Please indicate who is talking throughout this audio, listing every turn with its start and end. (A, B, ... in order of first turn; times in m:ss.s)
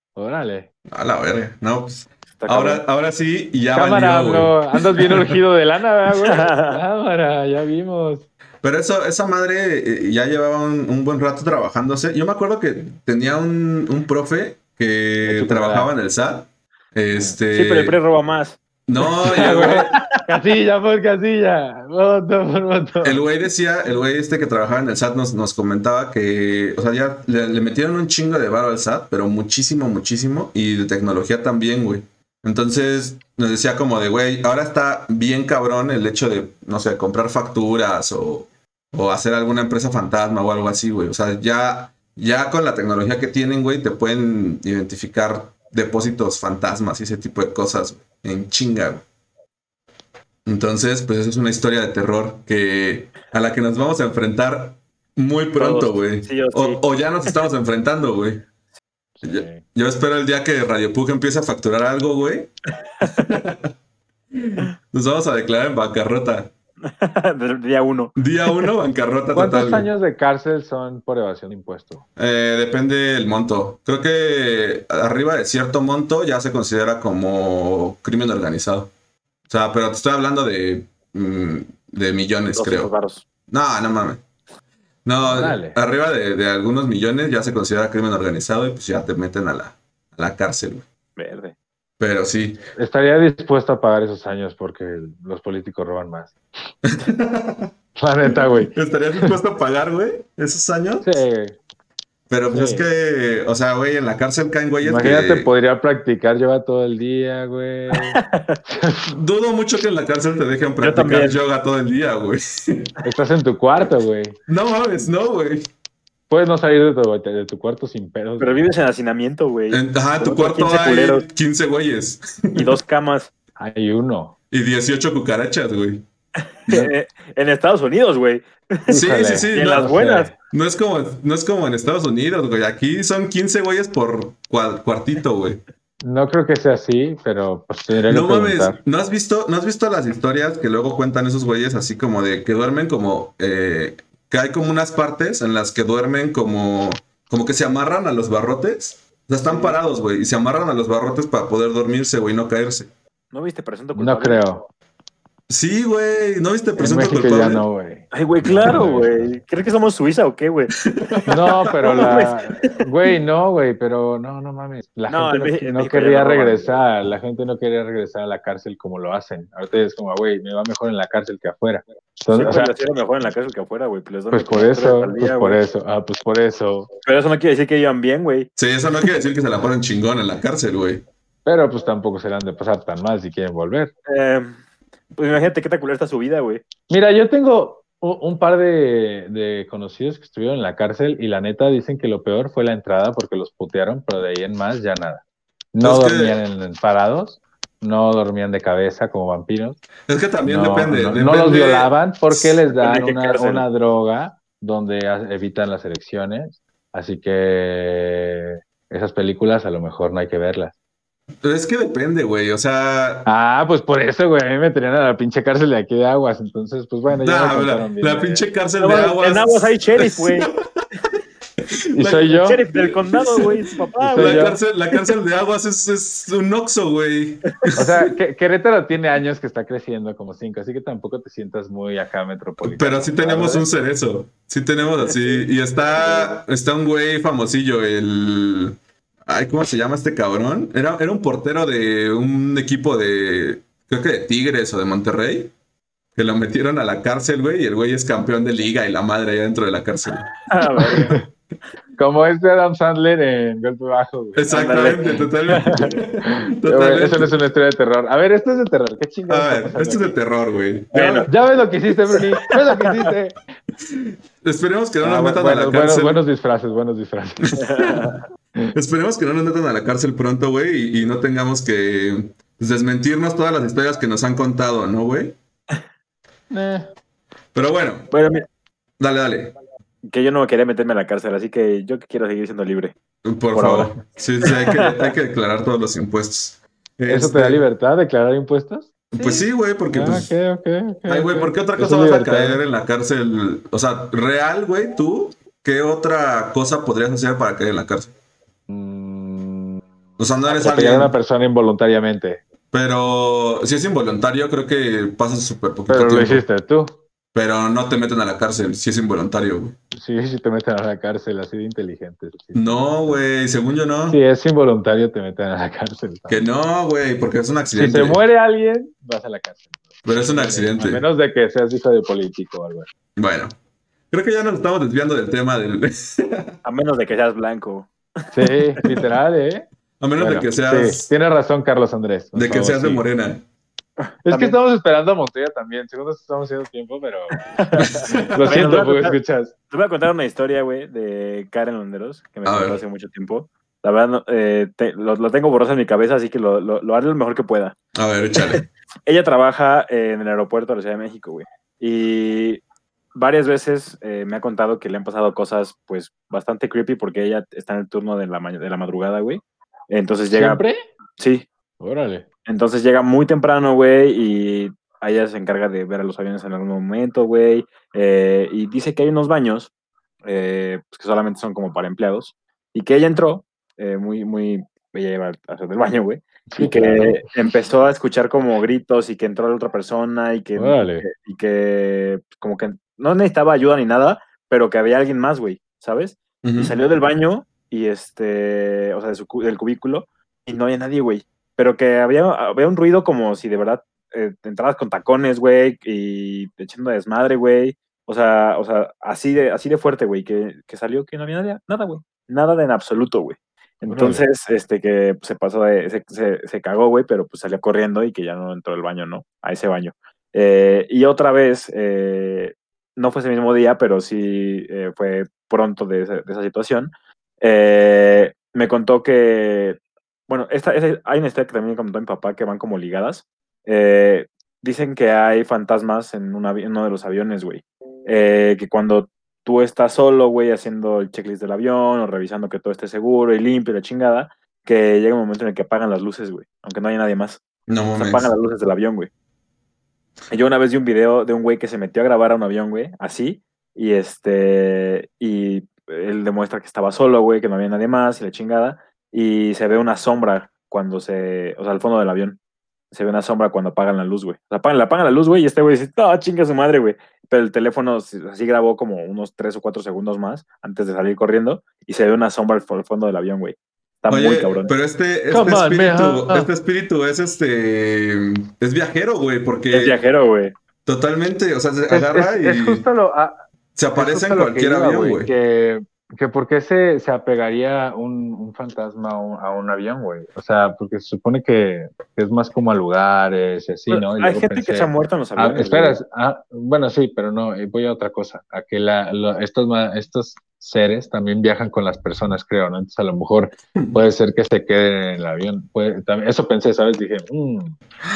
0:00.2-0:00.7 A
0:00.9-0:05.4 B
0:02.4-0:02.8 C
0:03.7-0:08.2 A
0:06.2-0:06.8 C
0:08.6-0:18.0 B
0:15.2-0:15.9 A
0:17.5-0:18.6 C
0:18.8-0:19.9 B
0:19.2-0:23.2 A
0:19.6-0:20.1 C
0:23.0-0:49.0 B
0:50.4-0:58.5 B
0:55.6-0:56.8 C
0:59.2-0:59.6 A
0:59.2-1:02.5 B
1:03.0-1:03.7 B
1:04.3-1:06.5 B
1:06.9-1:08.6 C
1:08.2-1:09.9 B
1:09.3-1:12.0 A
1:12.2-1:18.9 B
1:19.5-1:22.9 B
1:22.6-1:23.2 C
1:23.5-1:24.2 B
1:25.0-1:30.8 B
1:25.2-1:25.8 A
1:31.2-1:31.5 C
1:32.0-1:32.6 B
1:32.8-1:36.3 A
1:36.8-1:37.7 B
1:38.0-1:39.3 A
1:38.3-1:41.2 B
1:41.0-1:41.6 A
1:42.3-1:45.5 B
1:42.5-1:42.9 A
1:44.8-1:49.1 A
1:48.1-1:48.6 C
1:49.1-1:52.9 B
1:50.8-1:51.4 C
1:53.0-1:54.4 A
1:54.5-1:55.7 B
1:56.3-1:58.7 A
1:58.4-2:01.2 C
1:59.7-2:02.8 B
2:02.5-2:03.3 C
2:03.6-2:04.3 A
2:04.5-2:06.0 B
2:06.7-2:09.0 C
2:08.9-2:10.3 A
2:08.9-2:10.0 B
2:09.5-2:10.3 C
2:10.5-2:15.6 B
2:16.0-2:18.8 A
2:18.1-2:32.9 B
2:29.5-2:29.8 C
2:33.3-2:34.4 C
2:33.9-2:34.6 A
2:35.5-2:37.6 B
2:36.8-2:39.3 A
2:38.1-2:40.7 C
2:40.8-2:42.3 B
2:41.3-2:52.7 A
2:41.8-2:42.7 C
2:45.1-2:46.7 C
2:52.3-2:55.6 C
2:54.3-2:56.9 A
2:57.0-2:58.5 C
2:58.6-3:01.0 B
3:01.4-3:03.9 A
3:04.1-3:04.6 C
3:05.2-3:06.6 C
3:06.9-3:15.2 A
3:15.7-3:19.8 A
3:15.8-3:16.4 B
3:20.1-3:22.5 B
3:20.4-3:30.7 A
3:22.8-3:23.6 C
3:31.4-3:33.3 B
3:33.2-3:38.4 A
3:37.2-3:40.6 B
3:38.8-3:40.5 C
3:41.9-3:47.8 B
3:42.0-3:44.6 C
3:42.0-3:42.6 A
3:44.1-3:44.6 A
3:47.8-3:53.7 A
3:52.6-4:05.5 B
4:06.2-4:10.3 B
4:10.5-4:11.2 C
4:12.0-4:14.9 A
4:14.3-4:17.4 B
4:14.5-4:15.9 C
4:15.6-4:20.2 A
4:19.3-4:21.3 B
4:20.9-4:21.3 C
4:21.0-4:23.4 A
4:23.8-4:26.2 B
4:25.0-4:27.7 A
4:27.6-4:28.1 B
4:27.7-4:28.1 C
4:28.7-4:35.4 B
4:36.5-4:36.9 A
4:37.5-4:38.1 B
4:38.1-4:38.4 C
4:39.0-4:39.5 B
4:40.0-4:43.0 C
4:43.2-4:47.6 B
4:43.5-4:45.1 C
4:47.1-4:52.6 A
4:49.1-4:50.3 B
4:51.1-4:58.1 B
4:58.7-4:59.8 A
5:00.2-5:01.1 B
5:00.4-5:02.4 A
5:02.7-5:06.4 B
5:05.9-5:07.0 A
5:07.3-5:09.8 B
5:09.9-5:13.2 A
5:12.5-5:14.2 B
5:14.1-5:16.5 A
5:16.3-5:18.2 B
5:17.7-5:22.9 A
5:20.0-5:21.0 B
5:23.2-5:23.5 B
5:24.1-5:26.5 B
5:26.6-5:27.9 C
5:28.3-5:29.7 A
5:30.0-5:31.1 B
5:30.2-5:33.0 A
5:32.3-5:33.4 B
5:34.2-5:37.4 A
5:34.3-5:34.6 C
5:37.6-5:39.2 C
5:37.7-5:38.7 B
5:38.3-5:39.5 A
5:39.7-5:47.8 C
5:42.4-5:42.8 B
5:47.9-5:48.6 B
5:48.4-5:52.6 C
5:53.1-6:00.6 C
6:00.3-6:00.8 A
6:01.2-6:01.4 C
6:01.8-6:02.2 A
6:02.4-6:09.7 C
6:10.2-7:17.4 C
6:16.5-6:17.2 A
6:20.6-6:21.0 A
6:26.4-6:26.7 B
6:43.9-6:44.2 A
7:17.7-7:18.3 B
7:17.9-7:19.1 C
7:20.3-7:32.4 C
7:32.9-7:44.7 C
7:44.1-7:50.0 B
7:45.3-7:46.5 A
7:49.7-7:50.5 C
7:50.8-7:52.8 B
7:51.9-7:53.4 A
7:53.8-7:55.3 B
7:53.9-8:17.8 A
8:03.9-8:06.0 C
8:13.8-8:14.0 B